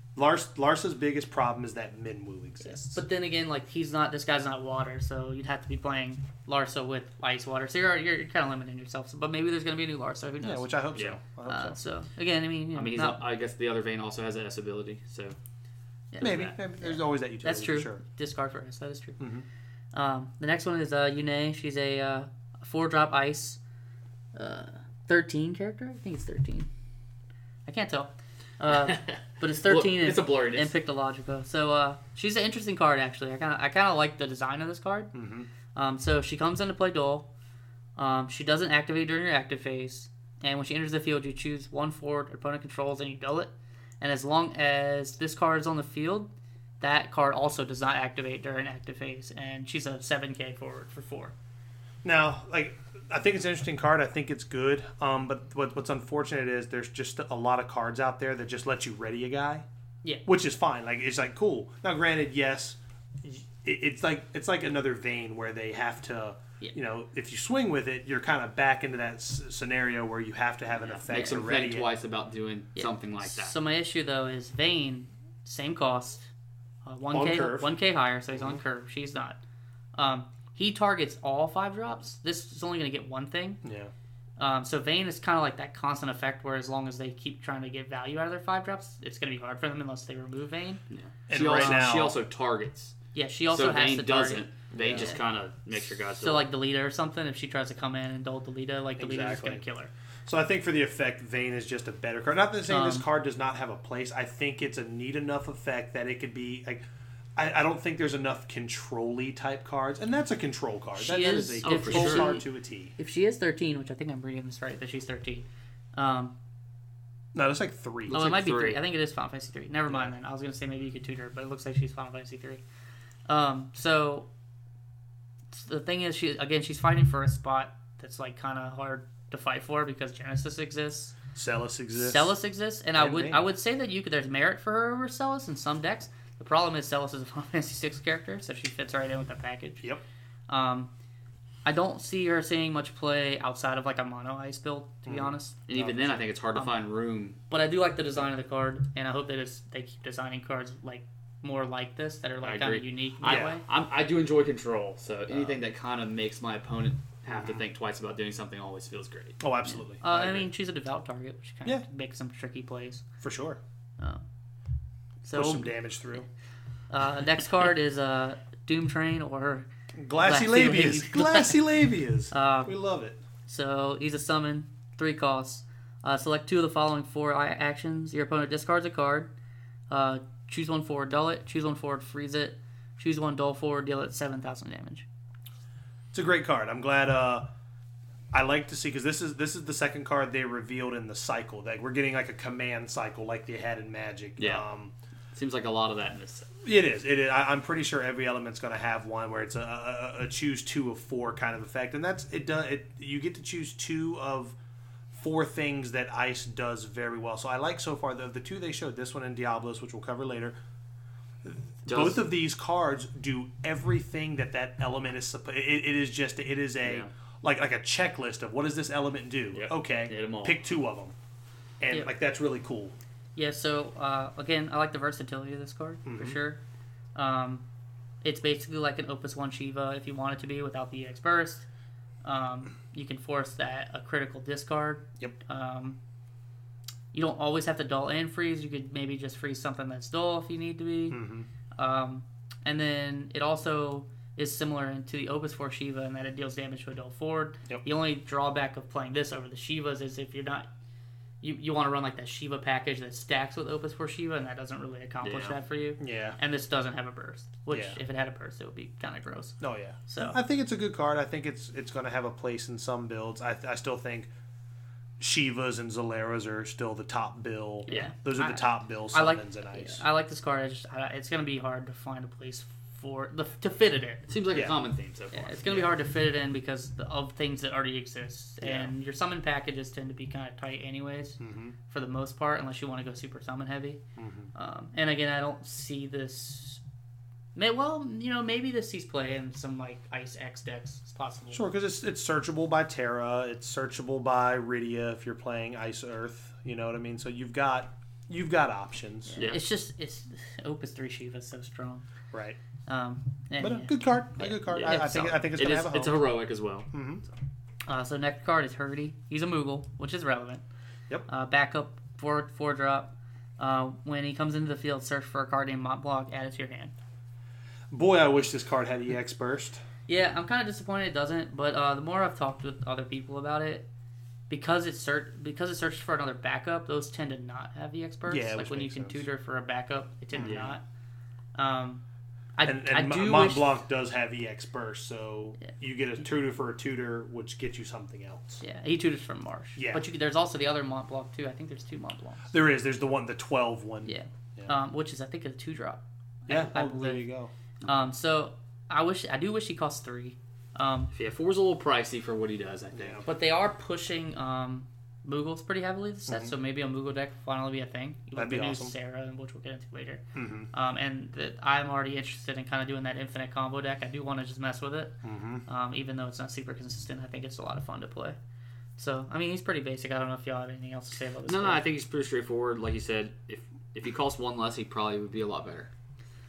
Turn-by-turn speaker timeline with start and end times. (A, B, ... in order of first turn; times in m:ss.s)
0:00.2-0:03.0 A
0:02.7-0:10.8 B
0:10.4-0:11.8 A
0:11.5-0:13.2 B
0:12.7-0:15.4 C
0:16.1-0:19.2 B
0:16.2-0:16.5 C
0:16.2-0:18.0 A
0:19.2-0:19.4 A
0:19.9-0:23.6 B
0:24.3-0:26.7 B
0:27.7-0:35.1 B
0:28.8-0:30.8 C
0:35.1-0:35.5 A
0:35.7-0:37.3 B
0:38.0-0:51.3 B
0:52.0-0:59.6 A
1:00.2-1:11.9 A
1:10.8-1:13.5 C
1:12.8-1:16.3 B
1:16.8-1:19.4 B
1:17.1-1:17.7 A
1:19.9-1:23.6 B
1:23.6-1:23.9 A
1:24.4-1:30.8 B
1:30.9-1:32.9 C
1:31.3-1:32.2 A
1:31.6-1:31.9 B
1:33.1-1:35.2 B
1:33.5-1:36.5 C
1:34.7-1:35.1 A
1:36.2-1:39.9 B
1:39.0-1:39.6 A
1:40.2-1:46.8 A
1:42.7-1:43.0 B
1:47.4-1:52.9 A
1:50.9-1:52.4 B
1:51.6-1:52.3 C
1:53.0-1:56.3 B
1:57.3-1:58.2 A
1:58.1-2:02.6 B
1:58.1-1:58.8 C
2:03.3-2:04.3 B
2:05.5-2:11.2 B
2:11.3-2:12.3 A
2:12.0-2:19.8 B
2:13.0-2:13.4 A
2:20.5-2:20.9 B
2:21.6-2:25.6 B
2:25.0-2:26.2 A
2:25.7-2:27.4 C
2:27.5-2:33.6 B
2:32.4-2:39.4 C
2:33.2-2:33.6 A
2:37.3-2:37.6 A
2:39.4-2:40.5 A
2:40.0-2:43.0 B
2:43.2-2:43.6 A
2:45.2-2:45.8 B
2:45.3-2:46.2 A
2:46.9-2:49.7 B
2:50.0-2:53.2 A
2:50.2-2:51.6 B
2:52.3-2:52.7 B
2:53.5-2:59.3 B
2:59.9-3:05.0 B
3:06.1-3:07.5 A
3:08.3-3:14.9 A
3:14.4-3:14.6 C
3:15.3-3:16.5 C
3:16.6-3:24.5 A
3:25.1-3:30.5 A
3:31.4-3:41.1 A
3:31.9-3:32.2 C
3:36.8-3:37.1 C
3:39.5-3:40.6 C
3:41.8-3:42.9 A
3:43.4-3:46.6 B
3:46.0-3:46.4 A
3:47.1-3:47.6 B
3:48.2-3:51.6 B
3:52.2-3:56.0 B
3:57.1-4:01.2 B
4:01.1-4:01.5 A
4:01.8-4:10.7 B
4:11.4-4:20.4 B
4:15.2-4:15.6 C
4:16.0-4:16.4 A
4:17.7-4:18.0 A
4:19.6-4:24.3 A
4:25.2-4:30.0 A
4:27.9-4:34.3 B
4:34.3-4:35.6 C
4:34.5-4:34.8 A
4:35.3-4:44.0 B
4:38.6-4:38.9 A
4:41.4-4:41.7 A
4:44.2-4:44.5 A
4:44.5-4:46.8 B
4:47.5-4:51.6 B
4:51.5-4:59.4 A
4:59.3-5:02.0 B
4:59.4-4:59.6 C
5:02.3-5:02.6 A
5:02.9-5:05.4 B
5:03.6-5:06.2 A
5:04.9-5:06.9 C
5:06.9-5:07.2 A
5:07.8-5:10.6 B
5:11.3-5:16.9 B
5:17.9-5:19.8 A
5:20.1-5:23.9 B
5:24.5-5:30.8 B
5:28.3-5:29.3 A
5:30.3-5:30.8 A
5:30.4-5:30.7 C
5:31.5-5:32.0 B
5:32.5-5:33.7 B
5:32.6-5:38.6 A
5:38.6-5:42.5 B
5:39.8-5:40.0 A
5:42.5-5:44.7 A
5:44.0-5:47.2 B
5:46.5-5:47.5 A
5:47.8-5:51.1 B
5:51.1-5:53.2 C
5:52.9-5:53.2 A
5:53.2-6:08.4 B
5:56.3-5:56.5 A
5:58.4-5:58.9 A
6:00.3-6:00.7 A
6:05.2-6:05.6 A
6:09.0-6:11.8 B
6:11.4-6:15.9 C